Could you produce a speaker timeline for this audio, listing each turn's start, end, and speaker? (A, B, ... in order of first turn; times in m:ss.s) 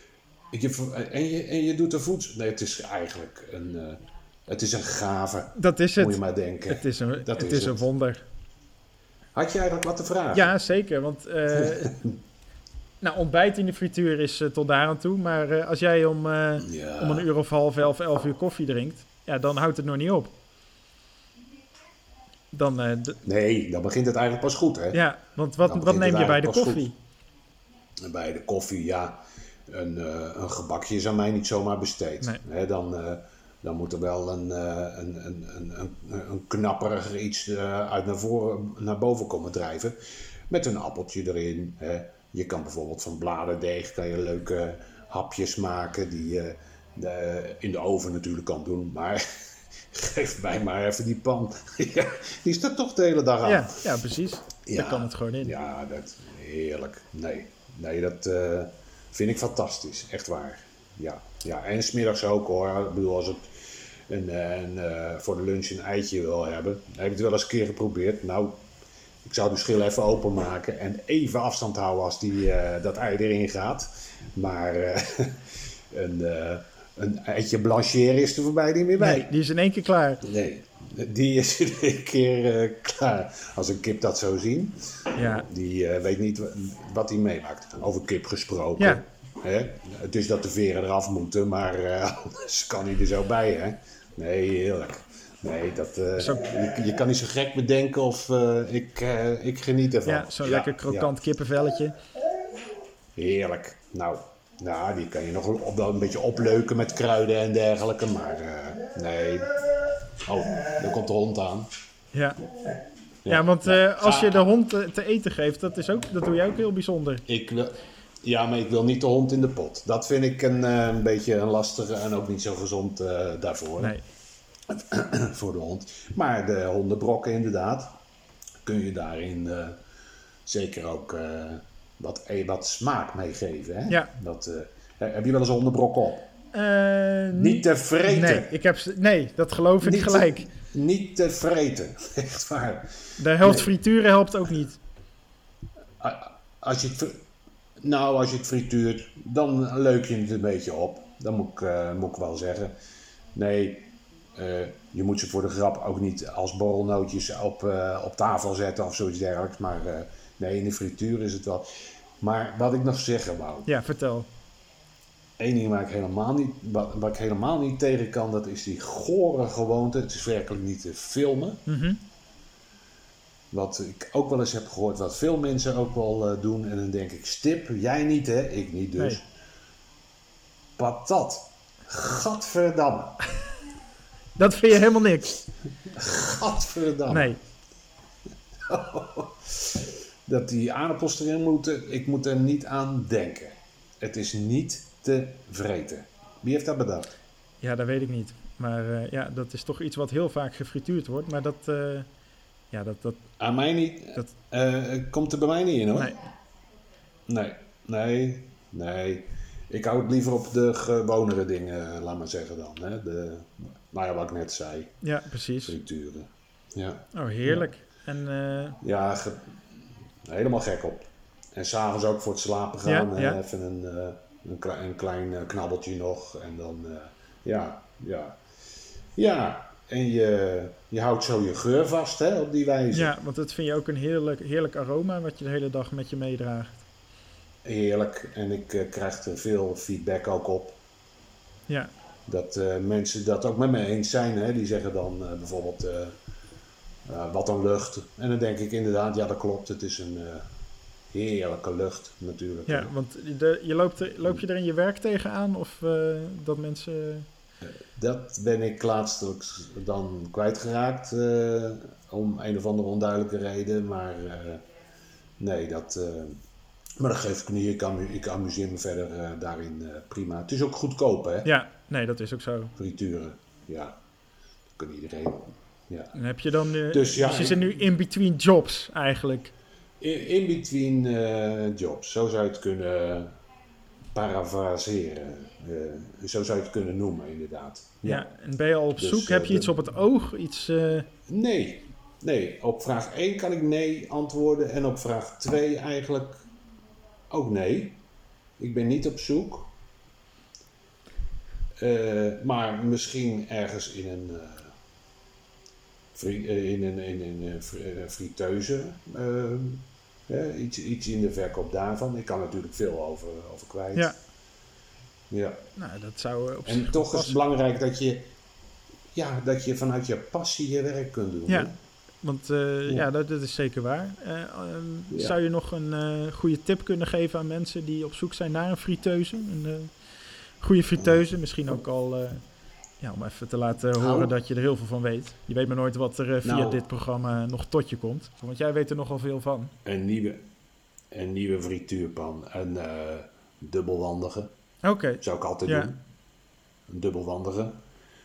0:00.5-0:07.9 A
0:05.6-0:08.2 B
0:09.4-0:10.5 A
0:10.3-0:12.0 B
0:11.6-0:11.9 A
0:13.0-0:20.3 B
0:16.6-0:17.3 A
0:22.5-0:23.2 B
0:23.2-0:25.0 A
0:24.9-0:27.0 B
0:25.6-0:26.9 A
0:28.0-0:40.0 A
0:40.5-0:49.2 A
0:49.9-0:53.8 A
0:53.4-0:55.6 B
0:54.7-1:03.5 A
1:04.1-1:08.6 A
1:09.3-1:19.3 A
1:19.0-1:20.2 B
1:20.2-1:41.1 A
1:25.2-1:25.5 B
1:36.2-1:36.5 B
1:40.0-1:42.0 B
1:43.2-1:49.6 A
1:50.3-1:51.7 A
1:52.1-1:52.4 B
1:53.2-1:54.5 A
1:53.3-1:57.2 B
1:57.3-2:04.0 A
2:04.7-2:08.0 A
2:08.6-2:09.8 A
2:10.5-2:16.3 A
2:16.5-2:20.5 B
2:17.3-2:18.5 A
2:19.8-2:23.7 A
2:23.2-2:24.8 B
2:26.0-2:27.2 A
2:27.8-2:32.7 A
2:33.4-2:41.7 A
2:42.2-2:43.7 A
2:43.7-2:44.3 B
2:45.4-2:51.6 A
2:51.7-2:52.0 B
2:53.5-2:59.2 A
3:00.8-3:03.2 A
3:04.4-3:05.4 B
3:05.9-3:07.4 A
3:07.1-3:07.4 B
3:08.7-3:17.1 A
3:17.6-3:22.1 B
3:22.7-3:23.2 B
3:23.4-3:26.2 A
3:25.9-3:26.2 B
3:27.3-3:35.0 A
3:35.0-3:35.8 B
3:35.6-3:37.6 A
3:37.1-3:38.8 B
3:38.8-3:39.6 A
3:40.3-3:48.4 A
3:42.8-3:43.4 B
3:49.2-3:53.1 A
3:52.9-3:56.9 B
3:57.6-4:00.8 A
4:02.3-4:06.2 A
4:07.1-4:10.4 A
4:11.1-4:12.9 A
4:12.7-4:17.3 B
4:18.0-4:24.6 A
4:25.4-4:26.4 A
4:27.0-4:31.5 A
4:31.4-4:32.7 B
4:32.8-4:34.0 A
4:34.8-4:36.2 A
4:36.1-4:39.5 B
4:36.9-4:37.7 A
4:40.0-4:43.3 A
4:44.1-4:48.3 A
4:48.0-4:51.1 B
4:49.0-4:49.8 A
4:51.3-4:56.4 A
4:57.3-4:58.0 A
4:58.6-4:59.7 A
5:01.8-5:04.7 A
5:06.2-5:14.1 A
5:15.3-5:15.7 A
5:15.8-5:17.4 B
5:16.7-5:18.3 A
5:19.1-5:21.8 A
5:22.2-5:29.9 B
5:25.1-5:25.4 A
5:30.6-5:32.4 B
5:33.0-5:39.7 B
5:34.0-5:34.3 A
5:36.4-5:36.8 A
5:39.8-5:40.4 A
5:41.1-5:44.5 A
5:44.8-5:45.9 B
5:45.2-5:46.0 A
5:46.9-5:47.8 A